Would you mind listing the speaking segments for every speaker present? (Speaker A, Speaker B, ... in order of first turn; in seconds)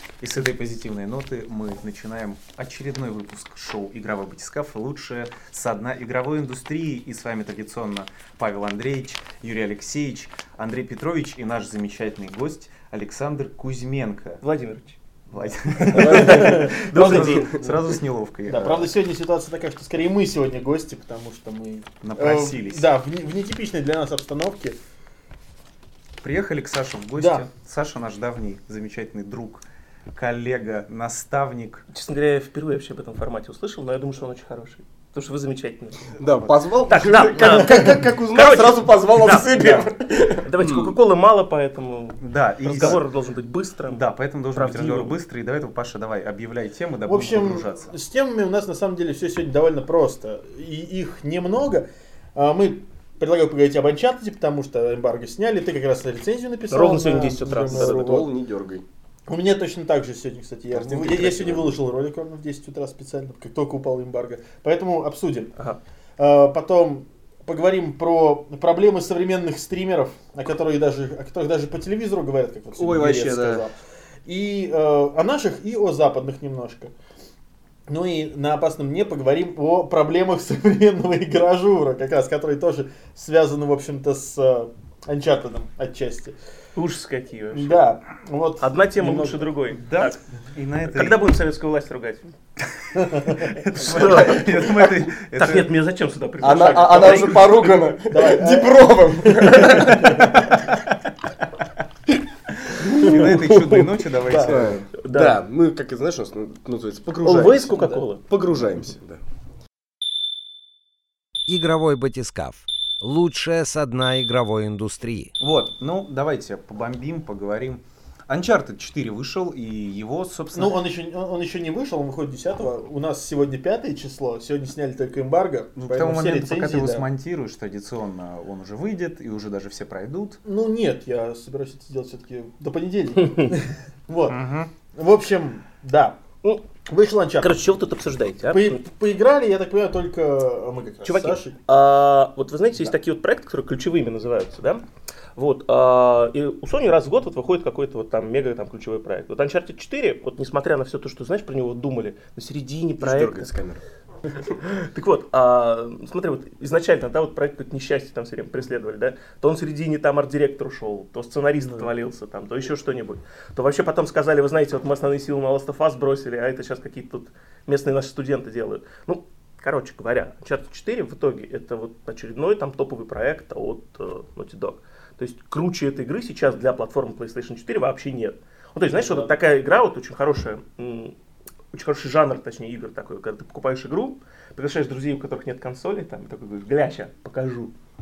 Speaker A: 0.2-14.4, 15.3-18.9, 22.0-22.9, 26.2-31.9, 42.2-43.0, 43.9-47.9, 89.8-91.3, 93.3-95.7, 102.7-104.7, 115.4-120.8, 125.8-130.4, 134.3-134.7
Speaker B: 14.4-15.0, 15.8-17.6, 31.9-36.2, 36.9-39.9, 40.4-44.0, 44.5-45.2, 56.7-58.3, 86.8-87.8, 88.6-90.2, 90.8-92.3, 93.6-97.8, 102.8-103.8, 105.0-105.4, 107.2-108.2, 137.4-138.8, 141.1-144.8, 145.4-153.5, 154.5-181.2, 181.7-187.7
Speaker C: 15.9-16.6, 36.2-40.9, 57.5-58.9, 60.7-61.8, 72.8-73.6, 96.4-100.3, 104.5-109.2, 153.0-153.8
Speaker D: 16.0-17.3, 18.5-24.8, 27.2-27.5, 47.1-58.3, 59.3-65.5, 66.2-76.9, 77.9-86.4, 87.5-89.5, 93.0-93.4, 96.5-97.3, 98.1-100.7, 104.2-104.7, 107.8-108.0, 120.5-127.1, 130.5-134.4, 134.9-136.2, 136.9-137.6, 138.5-141.6, 178.9-179.3
Speaker E: 111.5-115.3